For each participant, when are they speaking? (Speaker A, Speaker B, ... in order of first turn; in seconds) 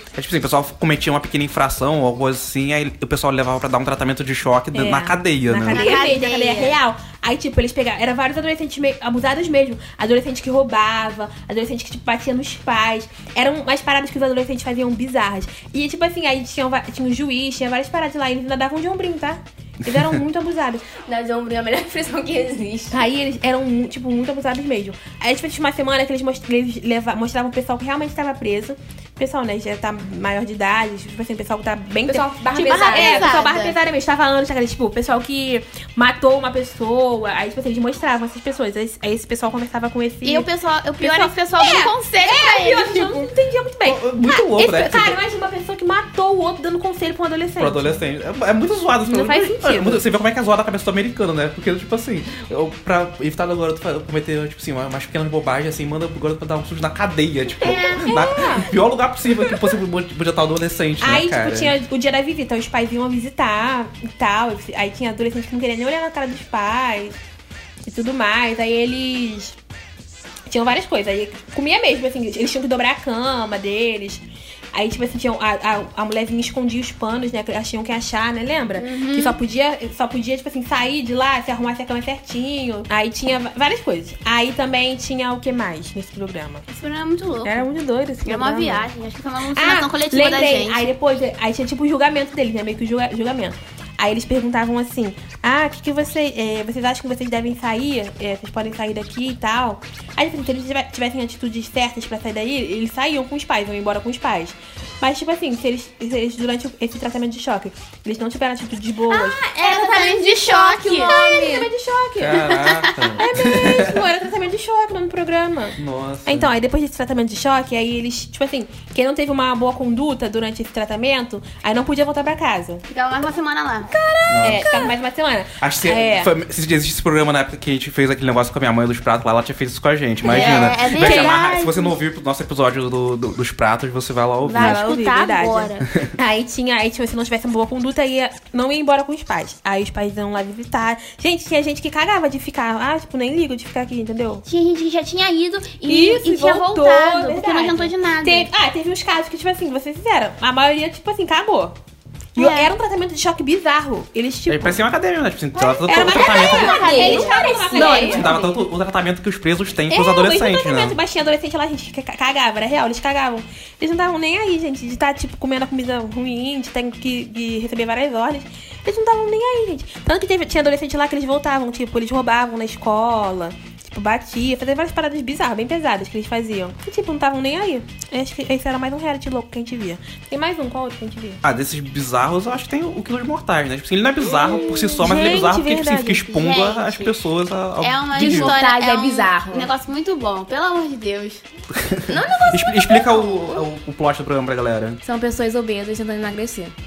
Speaker A: 0.1-6.0, 43.8-45.2, 47.6-61.8, 112.2-114.0, 115.8-116.5, 124.3-124.7, 125.6-134.8, 154.5-157.3, 157.9-161.0, 181.4-188.6, 191.8-195.0
Speaker B: 4.7-20.8, 22.9-40.5, 41.0-48.0, 49.1-50.0, 57.8-58.7, 61.0-67.2, 67.8-69.5, 70.5-86.6, 87.4-88.8, 89.5-109.4, 110.0-122.8, 123.9-126.3, 130.3-131.4, 134.6-144.4, 145.8-151.8, 152.3-154.8, 155.8-158.3, 159.9-181.4, 184.9-186.4
Speaker C: 5.7-6.8, 32.7-33.8, 40.2-43.3, 57.7-58.0, 78.7-79.4, 86.7-87.7, 88.2-90.8, 109.1-111.7, 112.4-113.0, 122.9-123.9, 130.2-131.9, 134.5-135.7, 144.4-148.5, 152.3-152.7, 155.9-158.5, 186.3-187.0, 187.8-191.4
Speaker D: 21.1-22.9, 32.0-33.4, 109.3-111.2, 135.0-135.5, 156.6-158.5, 184.6-185.2, 188.1-189.7, 192.1-193.6, 195.0-196.7